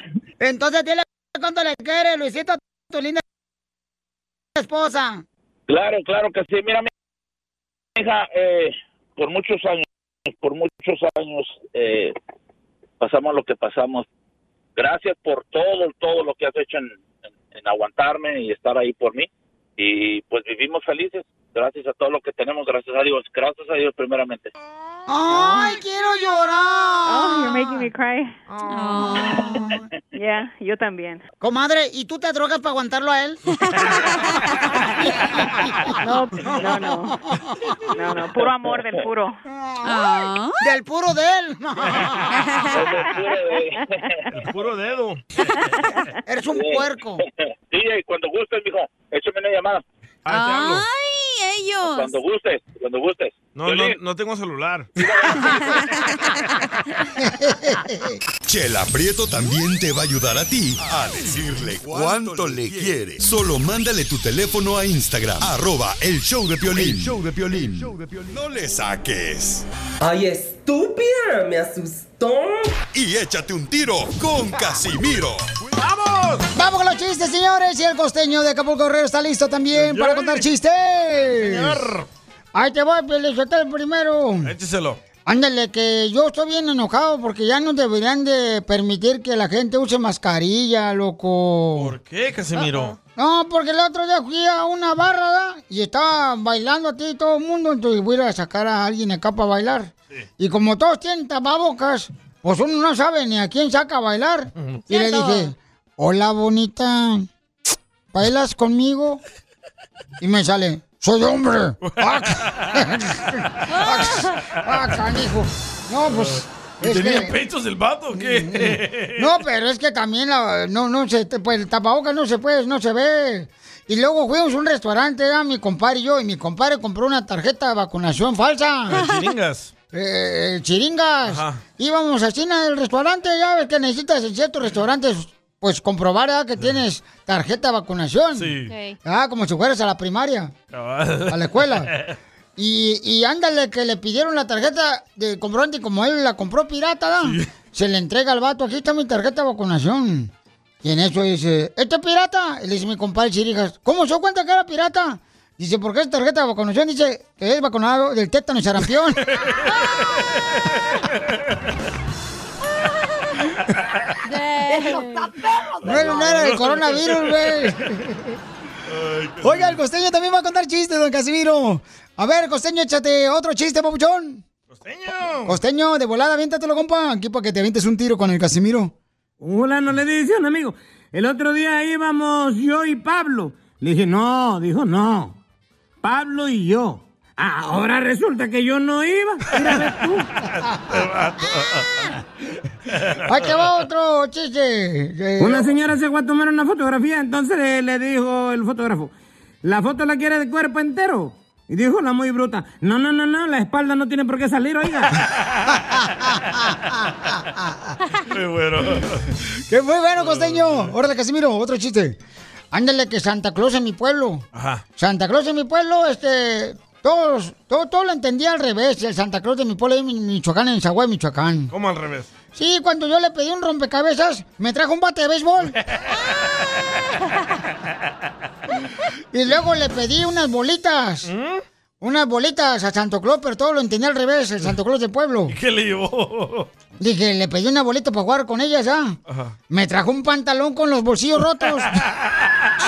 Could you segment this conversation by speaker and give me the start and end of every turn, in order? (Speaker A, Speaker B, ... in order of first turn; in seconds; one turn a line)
Speaker A: 0.4-3.2
Speaker A: 4.5-5.2
Speaker B: 5.7-6.9
Speaker B: 8.0-12.1
Speaker B: 13.0-14.1
Speaker B: 14.8-24.5
Speaker A: 25.1-27.8
Speaker C: 25.4-25.6
Speaker C: 27.1-28.3
Speaker D: 28.7-29.5
Speaker A: 29.2-29.8
Speaker C: 30.1-31.2
Speaker A: 31.4-33.4
Speaker D: 33.7-34.4
Speaker C: 36.0-37.1
Speaker C: 38.0-39.4
Speaker B: 38.3-39.0
Speaker A: 39.6-40.0
Speaker D: 39.8-40.6
Speaker A: 40.6-42.3
Speaker D: 42.3-42.8
Speaker B: 42.7-44.2
Speaker E: 44.3-45.2
Speaker A: 46.3-47.2
Speaker B: 46.5-49.8
Speaker E: 50.2-50.8
Speaker D: 50.3-52.1
Speaker B: 51.8-54.0
Speaker E: 53.5-54.9
Speaker B: 55.0-55.8
Speaker D: 55.6-56.0
Speaker A: 57.2-58.2
Speaker F: 58.5-69.6
Speaker G: 70.0-72.8
Speaker F: 72.9-75.4
Speaker E: 75.7-76.5
Speaker A: 76.5-81.9
Speaker E: 79.7-80.5
Speaker E: 81.4-82.1
Speaker A: 82.5-84.5
Speaker E: 84.4-85.0
Speaker A: 85.2-91.9
Speaker E: 91.8-93.0
Speaker D: 92.6-92.9
Speaker A: 93.2-107.3
Speaker D: 104.9-105.5
Speaker A: 108.1-109.2
Speaker A: 110.2-117.4
Speaker E: 111.8-112.8
Speaker D: 113.7-114.4
Speaker E: 116.1-119.3
Speaker A: 118.1-129.0
Speaker E: 128.9-129.7
Speaker D: 128.9-129.2
Speaker A: 129.9-140.5
Speaker E: 131.3-131.6
Speaker E: 138.3-138.7
Speaker D: 138.7-139.0
Speaker E: 140.7-142.2
Speaker A: 141.3-141.9
Speaker A: 142.6-150.3
Speaker E: 147.2-147.5
Speaker A: 150.8-159.2
Speaker E: 159.3-161.4
Speaker D: 164.2-165.3
Speaker A: 165.8-168.3
Speaker E: 165.8-167.5
Speaker E: 168.9-169.8
Speaker A: 169.4-174.4
Speaker E: 174.7-175.6
Speaker A: 175.4-178.9
Speaker H: 179.4-185.4
Speaker H: 186.0-190.0
Speaker A: 189.6-189.9
Speaker E: 190.4-192.2
Speaker E: 192.9-193.6
Speaker A: 193.2-195.7
Speaker H: 195.4-205.1
Speaker E: 205.2-205.8
Speaker A: 206.4-207.9
Speaker E: 208.3-209.4
Speaker A: 209.7-212.2
Speaker E: 210.2-210.9
Speaker A: 212.7-214.4
Speaker E: 214.5-214.8
Speaker A: 215.0-221.7
Speaker E: 221.7-222.3
Speaker A: 222.5-225.8
Speaker A: 229.3-231.3
Speaker E: 231.2-231.6
Speaker A: 232.0-235.6
Speaker E: 235.5-236.7
Speaker A: 237.0-239.2
Speaker E: 239.3-239.5
Speaker A: 239.7-242.0
Speaker E: 241.9-242.7